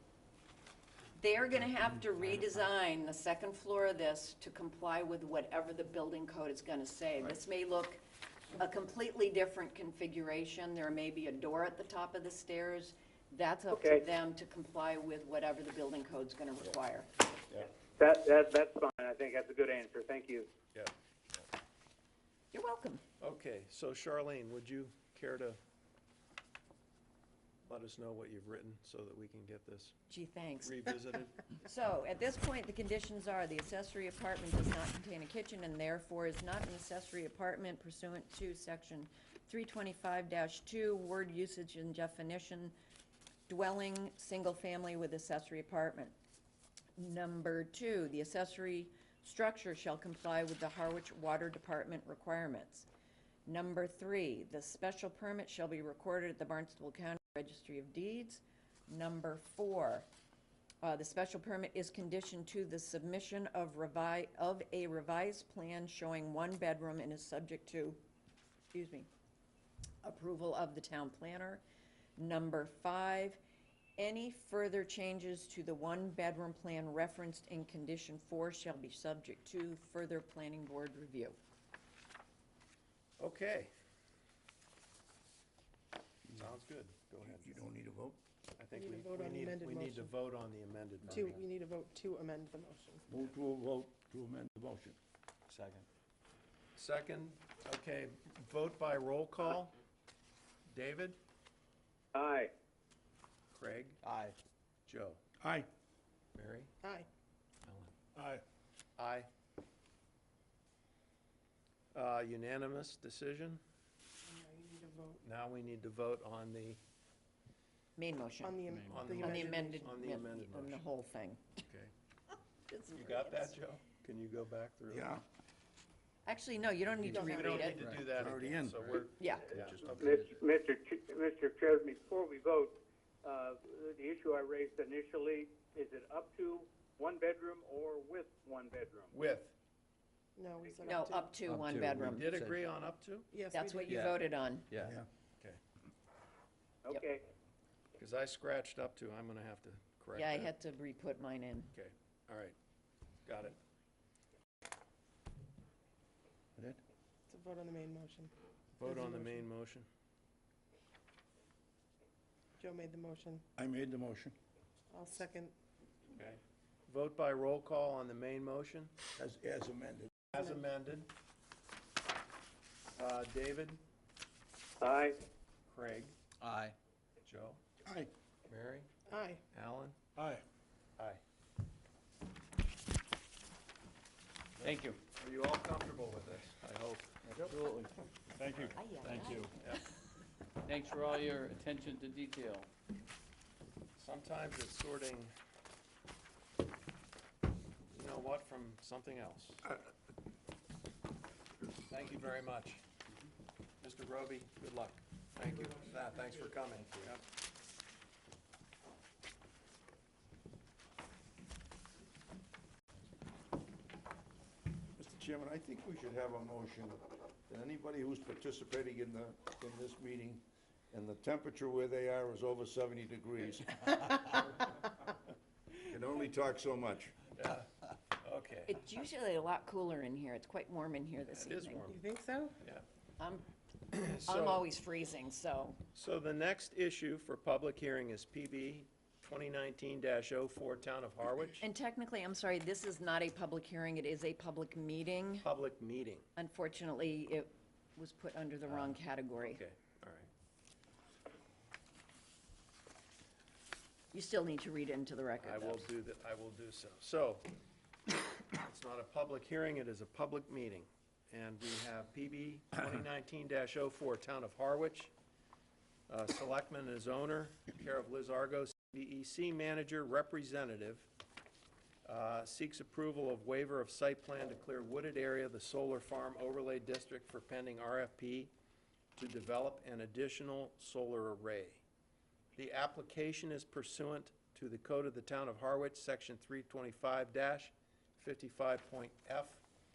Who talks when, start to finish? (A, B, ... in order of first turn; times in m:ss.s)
0:01.2-0:08.0 A
0:08.6-0:17.1 A
0:13.7-0:14.0 B
0:18.0-0:20.5 B
0:22.5-0:23.0 A
0:23.2-0:25.6 C
0:27.7-0:30.0 C
0:30.1-0:30.8 A
0:30.6-0:31.4 C
0:31.6-0:42.7 A
0:43.5-0:46.2 A
0:47.0-0:52.9 A
0:53.5-1:00.1 A
1:00.8-1:08.0 A
1:08.7-1:09.1 A
1:10.0-1:11.6 A
1:12.2-1:13.4 A
1:14.0-1:21.4 A
1:23.2-1:23.7 C
1:26.4-1:27.6 C
1:27.2-1:28.2 D
1:28.6-1:31.4 C
1:28.7-1:30.1 E
1:31.1-1:33.0 E
1:33.1-1:35.0 D
1:35.5-1:35.8 C
1:36.8-1:39.8 C
1:40.7-1:41.2 C
1:42.2-1:42.5 B
1:43.5-1:44.0 C
1:44.0-1:44.4 F
1:44.9-1:45.2 C
1:45.4-1:45.7 D
1:46.4-1:46.7 C
1:47.7-1:47.9 C
1:48.2-1:48.4 D
1:49.0-1:49.3 C
1:51.9-1:53.6 C
1:54.3-1:55.2 E
1:55.2-1:56.8 C
1:58.0-1:58.6 A
1:58.4-1:59.9 E
1:58.7-1:59.1 F
1:58.9-2:00.8 C
1:59.2-2:01.6 A
2:02.7-2:03.6 A
2:02.9-2:05.1 C
2:04.9-2:05.2 D
2:06.3-2:07.8 A
2:07.0-2:08.2 F
2:07.1-2:07.9 E
2:07.2-2:10.1 C
2:08.1-2:09.0 D
2:09.2-2:09.5 A
2:10.0-2:19.1 B
2:10.1-2:10.3 F
2:19.1-2:19.5 C
2:20.4-2:21.3 E
2:20.6-2:20.9 B
2:20.8-2:22.3 A
2:21.4-2:22.6 F
2:22.0-2:23.3 C
2:23.3-2:24.1 E
2:23.5-2:24.7 A
2:23.9-2:25.0 F
2:24.8-2:25.1 D
2:26.8-2:27.3 B
2:28.0-2:30.5 C
2:30.2-2:31.7 A
2:31.7-2:32.6 C
2:33.3-2:33.6 C
2:37.3-2:38.3 E
2:38.8-2:39.9 C
2:38.8-2:39.5 E
2:42.6-2:43.4 E
2:43.6-2:44.4 D
2:44.9-2:45.5 E
2:46.1-2:48.9 C
2:49.2-2:50.1 D
2:50.3-2:51.1 C
2:53.0-2:53.8 C
2:54.8-2:55.2 B
2:55.7-2:56.2 C
2:56.4-2:56.8 F
2:57.2-2:57.6 C
2:57.8-2:58.1 D
2:58.5-2:58.9 C
2:59.1-2:59.4 E
2:59.5-3:00.0 C
3:00.2-3:00.4 D
3:04.6-3:07.2 C
3:07.3-3:07.8 D
3:07.5-3:07.8 F
3:08.4-3:09.5 D
3:08.8-3:09.8 A
3:09.0-3:09.5 F
3:10.6-3:12.7 F
3:14.0-3:15.3 C
3:17.9-3:19.7 C
3:21.9-3:22.8 C
3:23.8-3:27.2 C
3:35.0-3:44.1 D
3:45.8-3:47.2 D
3:47.3-3:47.7 C
3:48.2-3:48.7 C
3:48.7-3:51.9 A
3:51.3-3:52.0 C
3:51.9-3:52.6 E
3:53.2-3:53.4 A
3:53.9-3:54.6 C
3:54.2-3:55.8 A
3:55.9-4:01.6 C
4:01.6-4:05.5 A
4:05.4-4:06.2 C
4:06.4-4:09.6 A
4:08.7-4:10.3 C
4:14.1-4:15.9 A
4:15.4-4:17.5 C
4:18.5-4:25.1 C
4:26.1-4:31.1 C
4:32.0-4:38.5 C
4:39.2-4:41.8 C
4:42.6-4:49.6 C